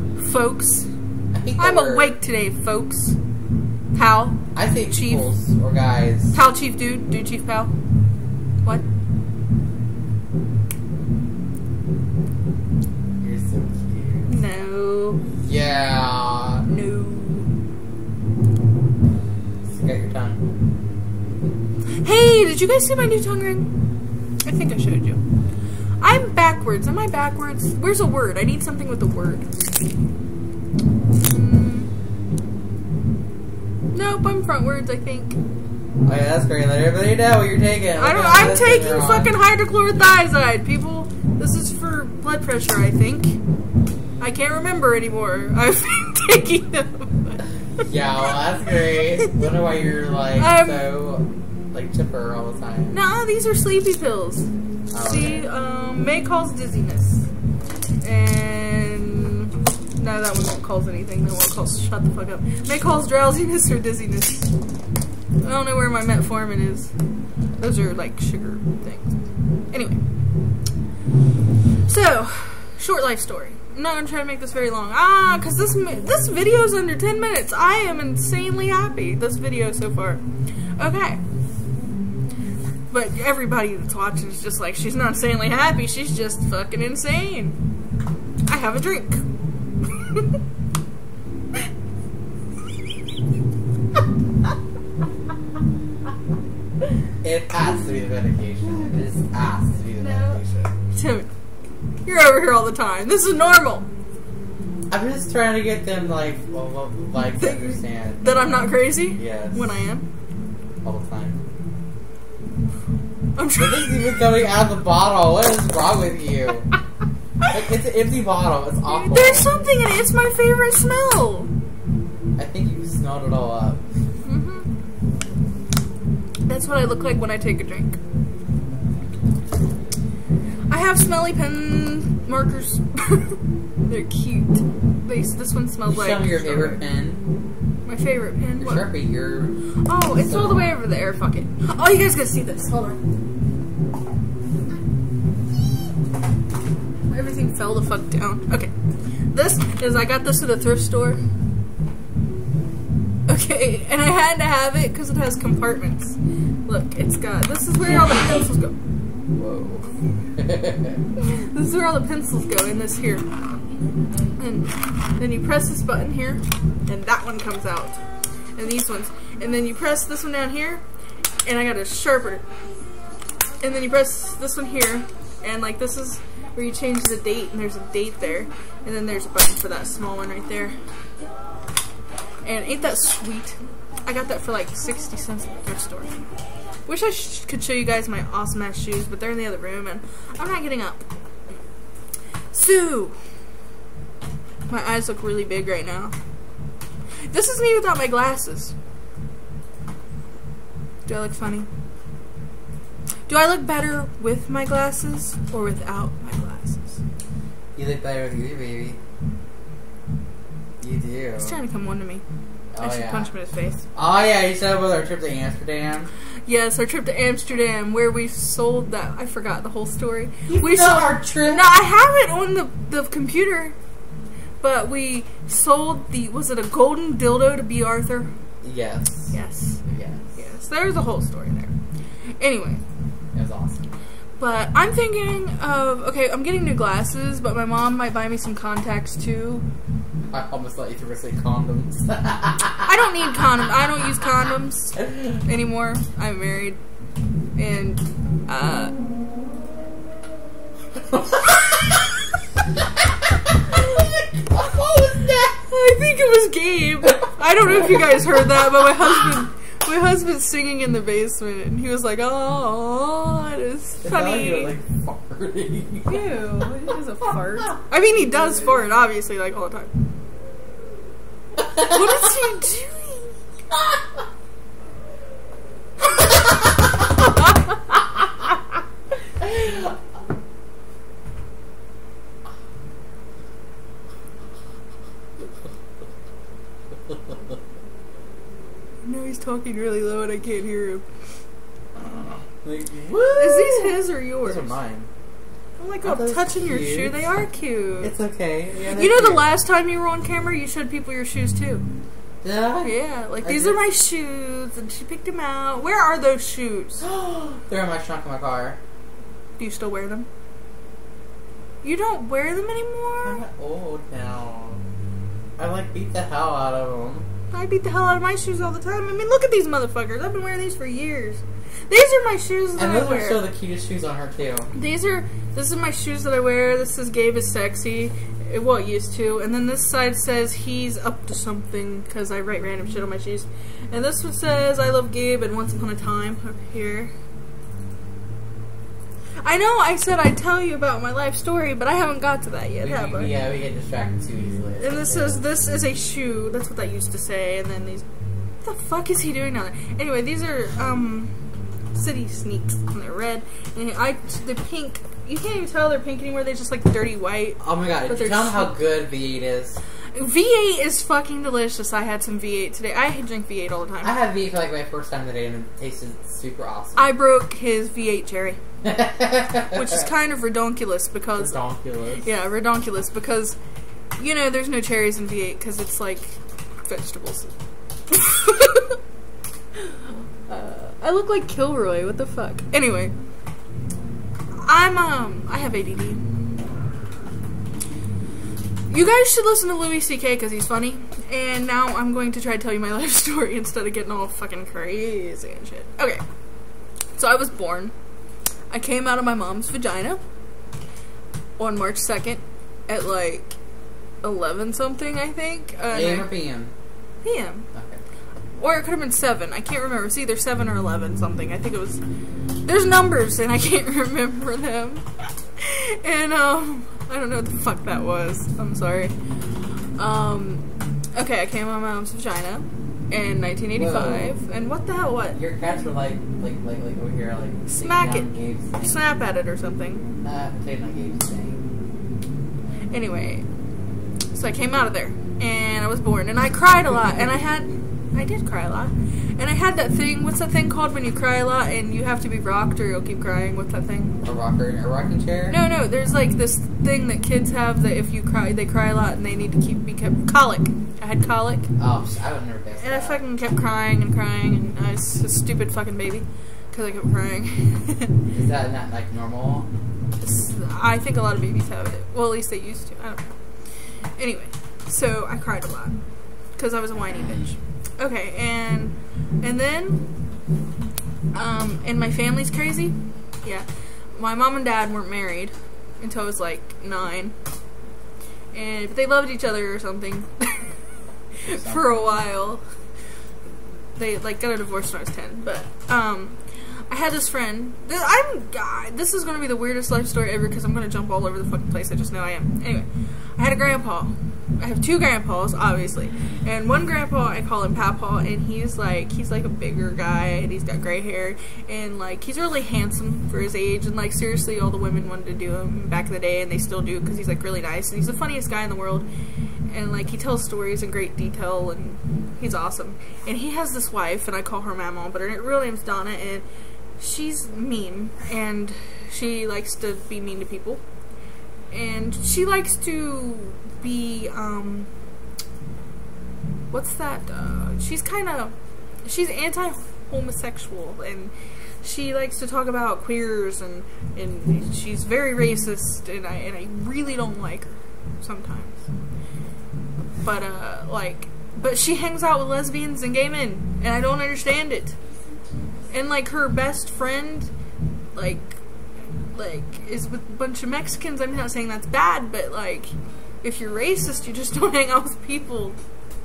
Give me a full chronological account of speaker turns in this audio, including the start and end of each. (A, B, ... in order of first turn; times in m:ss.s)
0:00.2-0:00.9 A
0:01.3-0:02.2 B
0:01.6-0:03.2 A
0:03.9-0:05.3 A
0:04.5-0:06.4 B
0:06.3-0:07.7 A
0:13.2-0:14.4 B
0:14.3-0:15.2 A
0:15.4-0:16.7 B
0:16.7-0:17.5 A
0:19.6-0:20.4 B
0:22.0-0:23.7 A
0:24.4-0:25.2 A
0:26.0-0:29.5 A
0:31.1-0:31.9 A
0:33.9-0:35.4 A
0:36.0-0:39.3 B
0:38.0-0:43.4 A
0:44.2-0:47.9 A
0:47.8-0:53.0 B
0:48.7-0:49.3 A
0:50.4-0:51.0 A
0:52.9-0:54.5 A
0:54.9-0:55.5 B
0:55.0-0:57.3 A
0:58.0-1:04.5 A
1:05.4-1:06.9 A
1:07.6-1:09.2 A
1:09.7-1:10.0 A
1:11.9-1:20.2 A
1:20.8-1:21.2 A
1:22.9-1:27.6 A
1:28.5-1:29.2 A
1:30.0-1:30.4 A
1:37.2-1:40.7 B
1:40.9-1:41.3 A
1:42.0-1:43.9 A
1:44.9-1:48.4 B
1:47.4-1:50.1 A
1:49.2-1:49.7 B
1:50.8-1:51.4 B
1:53.4-1:54.2 A
1:53.6-1:56.7 B
1:57.5-1:59.5 B
1:58.9-2:01.5 A
2:02.4-2:03.8 B
2:04.2-2:04.7 A
2:06.5-2:08.0 A
2:10.7-2:16.8 A
2:15.8-2:17.2 B
2:17.9-2:19.0 A
2:18.6-2:19.5 B
2:19.8-2:23.0 A
2:20.2-2:20.7 B
2:27.1-2:28.7 A
2:29.3-2:31.2 A
2:33.3-2:38.8 A
2:39.3-2:41.0 B
2:41.2-2:43.2 A
2:44.4-2:48.0 A
2:48.6-2:50.8 A
2:51.4-2:52.4 A
2:53.6-3:00.8 A
3:02.4-3:06.3 A
3:06.9-3:11.1 A
3:12.5-3:13.2 A
3:14.7-3:16.2 A
3:17.3-3:18.7 A
3:21.1-3:21.7 A
3:23.3-3:27.0 A
3:27.8-3:29.0 B
3:30.8-3:31.6 B
3:31.4-3:32.2 A
3:32.7-3:33.3 B
3:32.8-3:33.8 A
3:34.0-3:36.1 B
3:36.5-3:43.7 A
3:40.5-3:41.8 B
3:44.6-3:48.3 A
3:48.6-3:49.3 B
3:49.3-3:49.8 A
3:49.9-3:50.4 B
3:50.4-3:51.7 A
3:52.4-3:52.8 A
3:53.3-3:53.9 B
3:54.4-3:59.6 A
4:00.3-4:03.6 B
4:02.8-4:06.8 A
4:07.6-4:08.9 A
4:11.0-4:12.2 B
4:13.7-4:15.6 B
4:15.7-4:24.8 A
4:17.7-4:18.2 B
4:24.0-4:26.4 B
4:26.1-4:29.9 A
4:31.8-4:33.3 A
4:49.0-4:51.0 A
4:52.0-4:55.1 B
4:53.4-4:54.7 A
4:55.8-4:58.2 A
4:56.0-4:57.3 B
4:58.0-4:59.5 B
4:59.0-5:01.8 A
5:02.4-5:03.8 B
5:02.8-5:07.0 A
5:07.0-5:08.8 B
5:09.6-5:10.3 A
5:11.8-5:13.4 A
5:13.2-5:14.8 B
5:15.6-5:17.3 B
5:17.5-5:23.4 A
5:22.8-5:24.7 B
5:24.7-5:37.1 A
5:39.4-5:43.4 A
5:42.8-5:45.4 B
5:44.8-5:48.0 A
5:48.6-5:51.3 A
5:51.9-5:58.8 A
5:57.6-5:59.8 B
6:00.2-6:04.2 A
6:04.0-6:07.1 B
6:07.0-6:08.6 A
6:08.8-6:10.0 B
6:09.7-6:11.6 A
6:11.4-6:12.3 B
6:12.2-6:13.6 A
6:14.2-6:17.5 A
6:18.1-6:19.0 A
6:19.8-6:23.1 A
6:24.6-6:26.3 A
6:28.9-6:36.2 A
6:37.2-6:37.9 A
6:38.7-6:40.2 A
6:41.6-6:43.6 A
6:44.2-6:46.3 A
6:45.9-6:46.7 B
6:47.2-6:47.6 A
6:47.7-6:48.0 B
6:48.6-6:52.0 A
6:52.6-6:59.1 A
7:00.0-7:00.6 A
7:01.2-7:05.4 A
7:03.7-7:04.4 B
7:05.3-7:09.0 B
7:07.7-7:10.1 A
7:10.2-7:11.6 B
7:12.9-7:13.5 A
7:14.3-7:24.2 A
7:24.2-7:25.6 B
7:25.5-7:31.7 A
7:31.8-7:33.2 B
7:32.8-7:38.1 A
7:38.3-7:39.7 B
7:40.2-7:43.3 A
7:44.2-7:46.0 A
7:46.6-7:50.0 A
7:51.3-7:57.4 A
7:58.5-8:00.8 A
8:01.4-8:02.6 A
8:01.5-8:01.9 B
8:04.0-8:06.4 A
8:06.9-8:29.1 A
8:29.7-8:36.4 A
8:37.0-8:40.8 A
8:41.7-8:44.9 A
8:46.7-8:48.5 A
8:49.0-8:58.8 A
9:00.2-9:05.0 A
9:05.9-9:07.5 A
9:08.2-9:08.6 A
9:09.3-9:15.8 A